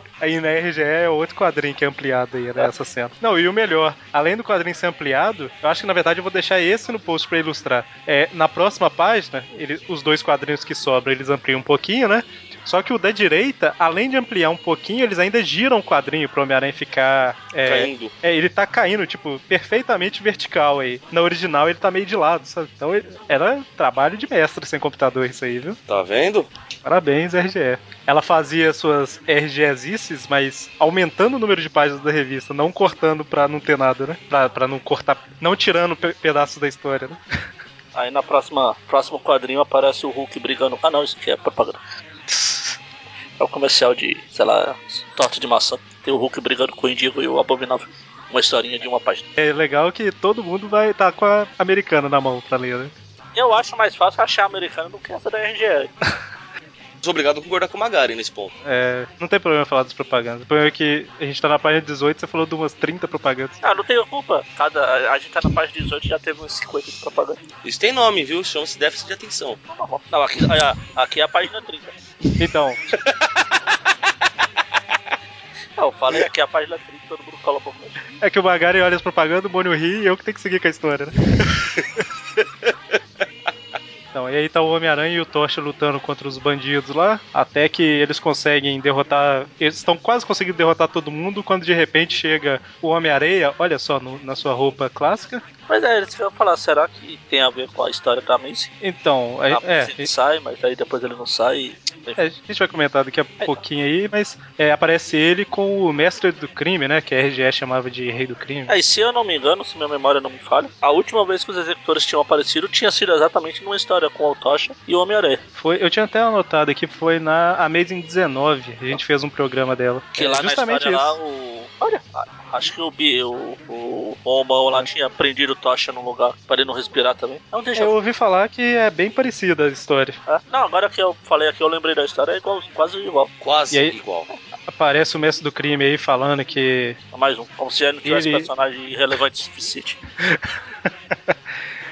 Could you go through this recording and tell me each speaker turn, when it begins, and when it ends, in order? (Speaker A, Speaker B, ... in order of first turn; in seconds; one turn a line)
Speaker A: 0.2-25.8
Speaker B: 17.6-18.1
Speaker B: 25.9-26.5
Speaker A: 26.8-37.2
Speaker C: 37.9-41.8
Speaker C: 43.4-49.3
Speaker A: 49.4-52.9
Speaker C: 53.4-55.9
Speaker B: 57.0-58.5
Speaker A: 58.6-63.6
Speaker C: 63.6-67.4
Speaker B: 67.6-69.6
Speaker C: 69.7-72.0
Speaker A: 72.4-72.8
Speaker C: 75.8-78.0
Speaker A: 78.2-81.7
Speaker A: 84.1-95.4
Speaker C: 95.7-98.7
Speaker A: 98.8-100.1
Speaker C: 99.5-102.2
Speaker A: 102.2-108.7
Speaker C: 108.7-115.4
Speaker A: 115.5-121.2
Speaker C: 120.2-127.9
Speaker A: 127.8-130.2
Speaker C: 130.3-133.3
Speaker B: 133.4-134.3
Speaker A: 134.7-137.0
Speaker C: 137.1-140.0
Speaker A: 138.0-138.5
Speaker A: 140.2-141.3